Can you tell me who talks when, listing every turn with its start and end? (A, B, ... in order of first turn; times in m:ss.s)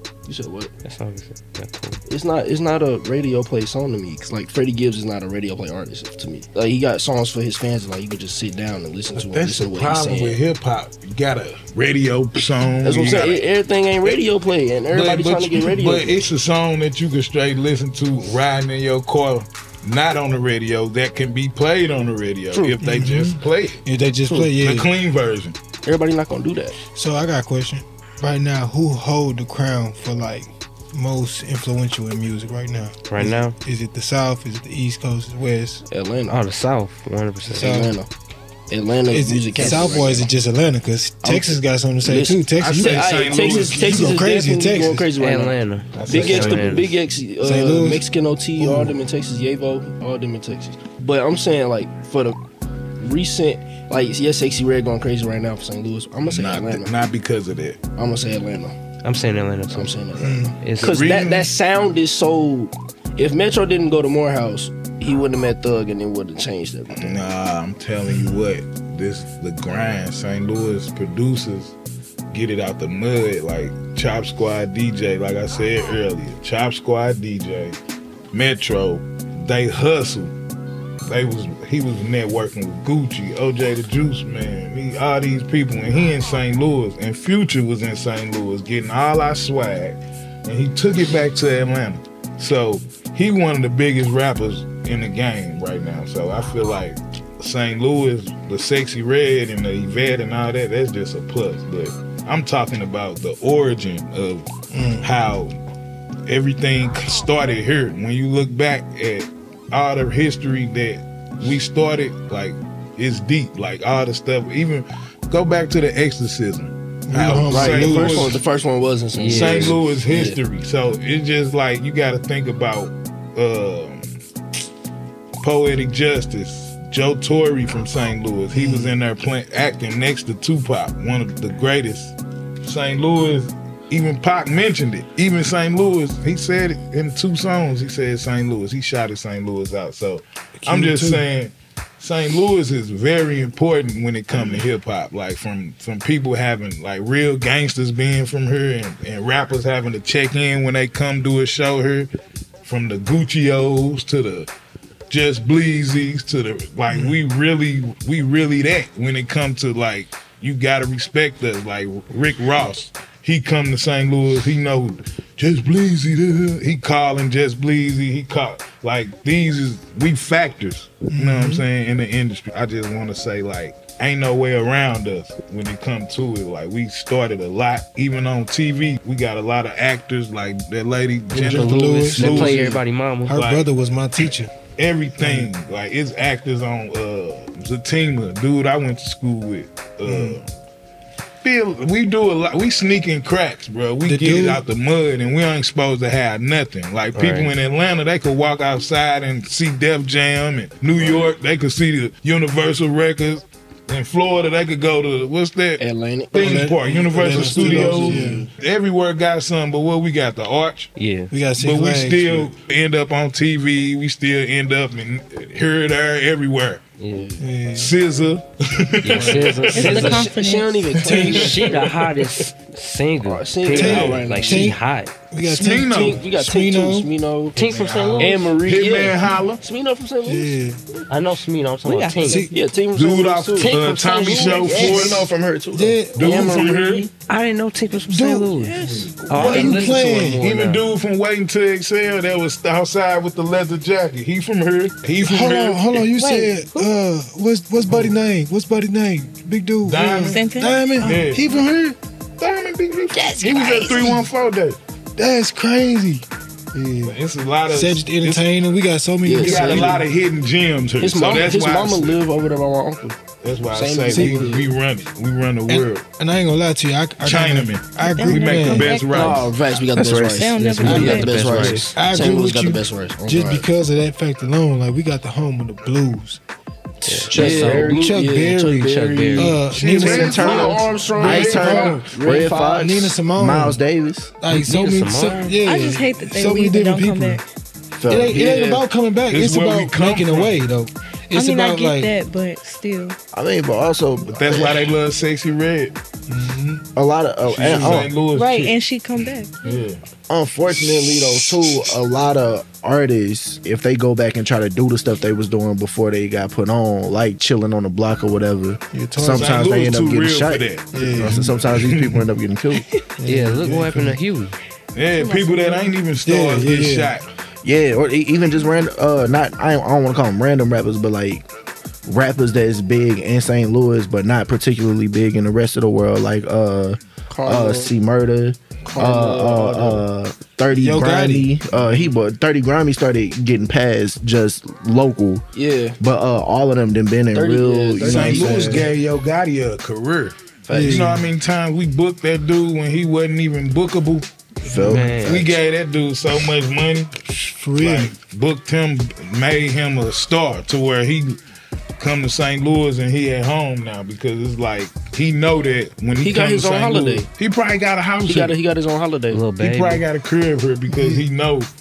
0:00.3-0:00.7 A
0:00.8-0:02.0 B
0:02.1-0:10.4 A
0:09.1-0:13.5 C
0:12.8-0:16.2 A
0:14.0-0:14.3 C
0:14.9-0:23.8 C
0:22.5-0:22.8 A
0:22.8-0:24.9 D
0:24.5-0:25.6 C
0:25.8-0:26.8 A
0:26.8-0:35.8 D
0:33.1-0:33.6 B
0:35.9-0:36.4 A
0:36.3-0:37.8 B
0:37.6-0:38.1 A
0:37.6-0:37.9 D
0:38.7-0:40.3 A
0:39.1-0:45.1 D
0:41.2-0:52.4 A
0:42.6-0:44.2 C
0:45.2-0:47.0 B
0:46.0-0:46.8 C
0:47.4-0:49.0 D
0:53.0-0:56.9 A
0:56.2-0:57.8 C
0:58.0-0:58.8 A
0:59.0-1:00.0 B
0:59.7-1:07.2 A
1:00.2-1:00.6 D
1:00.5-1:01.1 B
1:00.8-1:01.5 C
1:06.9-1:11.8 C
1:08.0-1:08.5 D
1:12.3-1:17.8 C
1:18.3-1:20.3 C
1:21.0-1:45.6 C
1:44.7-1:45.1 D
1:46.3-1:58.4 C
1:57.1-1:58.3 D
1:57.5-2:00.4 A
1:59.2-1:59.8 B
1:59.3-2:04.2 C
2:05.4-2:32.1 C
2:08.5-2:09.0 D
2:20.6-2:21.3 D
2:24.3-2:24.7 D
2:32.6-2:34.5 C
2:35.1-3:02.8 C
2:36.9-2:37.2 D
2:51.1-2:51.6 D
3:01.3-3:02.7 D
3:01.3-3:03.4 B
3:02.4-3:02.7 A
3:03.3-3:04.5 D
3:03.3-3:03.7 C
3:04.7-3:10.5 C
3:05.2-3:05.5 D
3:10.0-3:10.4 D
3:11.4-3:30.9 C
3:14.0-3:14.6 D
3:17.1-3:17.6 B
3:25.8-3:28.5 A
3:26.4-3:28.5 D
3:31.0-3:31.3 B
3:31.3-3:32.5 D
3:31.6-3:36.8 C
3:37.0-3:37.3 B
3:37.1-3:37.4 A
3:37.4-3:38.0 D
3:37.7-3:40.0 C
3:39.0-3:40.3 B
3:39.2-3:41.9 A
3:39.8-3:40.9 E
3:41.0-3:41.5 D
3:41.1-3:45.1 B
3:41.1-3:42.5 C
3:43.2-3:44.8 A
3:43.7-3:44.8 D
3:43.9-3:44.3 C
3:45.3-3:47.1 D
3:45.4-3:46.2 C
3:45.9-3:47.6 A
3:47.5-3:48.5 B
3:47.6-3:49.6 C
3:48.2-3:51.0 A
3:50.2-3:50.8 D
3:51.1-3:52.5 B
3:51.8-3:52.5 E
3:52.2-3:52.6 D
3:52.5-3:57.1 A
3:52.9-3:55.3 C
3:53.6-3:55.1 B
3:55.7-3:56.3 D
3:56.1-3:57.1 C
3:57.3-4:00.8 B
3:58.1-3:58.6 D
3:58.6-3:59.1 A
3:58.8-4:06.2 C
3:59.3-4:00.4 D
4:05.2-4:12.0 D
4:06.2-4:06.9 E
4:07.9-4:08.1 C
4:09.8-4:10.5 C
4:10.2-4:10.8 E
4:11.0-4:11.6 C
4:12.4-4:14.8 C
4:13.2-4:13.9 E
4:13.4-4:14.2 D
4:15.2-4:17.2 D
4:17.0-4:18.5 C
4:17.7-4:20.0 D
4:19.2-4:20.0 A
4:19.4-4:22.2 C
4:21.0-4:23.2 A
4:23.4-4:26.1 C
4:23.7-4:24.7 A
4:24.1-4:24.5 D
4:25.7-4:29.0 D
4:27.2-4:29.5 C
4:28.0-4:29.5 E
4:29.0-4:33.7 A
4:30.0-4:30.5 F
4:30.1-4:31.5 E
4:30.5-4:31.9 B
4:30.8-4:31.2 D
4:31.9-4:36.4 D
4:37.0-4:38.0 B
4:37.2-4:42.1 D
4:37.3-4:39.6 A
4:38.8-4:39.6 B
4:39.6-4:42.1 C
4:40.0-4:44.4 F
4:40.3-4:42.9 A
4:42.7-4:43.8 D
4:44.4-4:47.4 D
4:44.5-4:45.6 B
4:45.5-4:47.4 E
4:48.0-4:48.6 F
4:48.1-4:52.1 D
4:48.4-4:50.6 C
4:51.3-4:53.2 E
4:53.3-4:54.9 F
4:54.2-4:56.0 C
4:56.3-4:56.8 D
4:57.0-4:58.1 F
4:57.4-5:00.0 C
4:57.6-4:58.1 D
4:58.3-4:59.8 E
5:00.3-5:12.8 F
5:08.9-5:09.6 D
5:09.2-5:12.2 C
5:10.9-5:11.6 D
5:13.2-5:14.1 D
5:13.2-5:14.6 B
5:13.6-5:13.9 C
5:14.9-5:17.3 C
5:15.2-5:16.0 E
5:16.2-5:17.2 D
5:17.6-5:21.5 F
5:22.1-5:35.4 F
5:27.3-5:27.9 A
5:28.9-5:30.0 A
5:30.7-5:31.5 D
5:31.7-5:32.1 C
5:35.5-5:36.0 A
5:36.0-5:38.9 F
5:37.3-5:38.9 A
5:38.0-5:44.3 C
5:40.7-5:41.3 D
5:44.6-5:45.3 F
5:44.7-5:45.2 D
5:44.8-5:45.6 B
5:45.2-5:47.1 C
5:47.3-5:48.2 D
5:47.8-5:51.4 C
5:52.0-5:58.6 C
5:56.2-5:57.3 A
5:58.2-5:59.5 A
5:59.3-6:00.1 B
5:59.6-6:01.7 C
6:00.9-6:01.3 D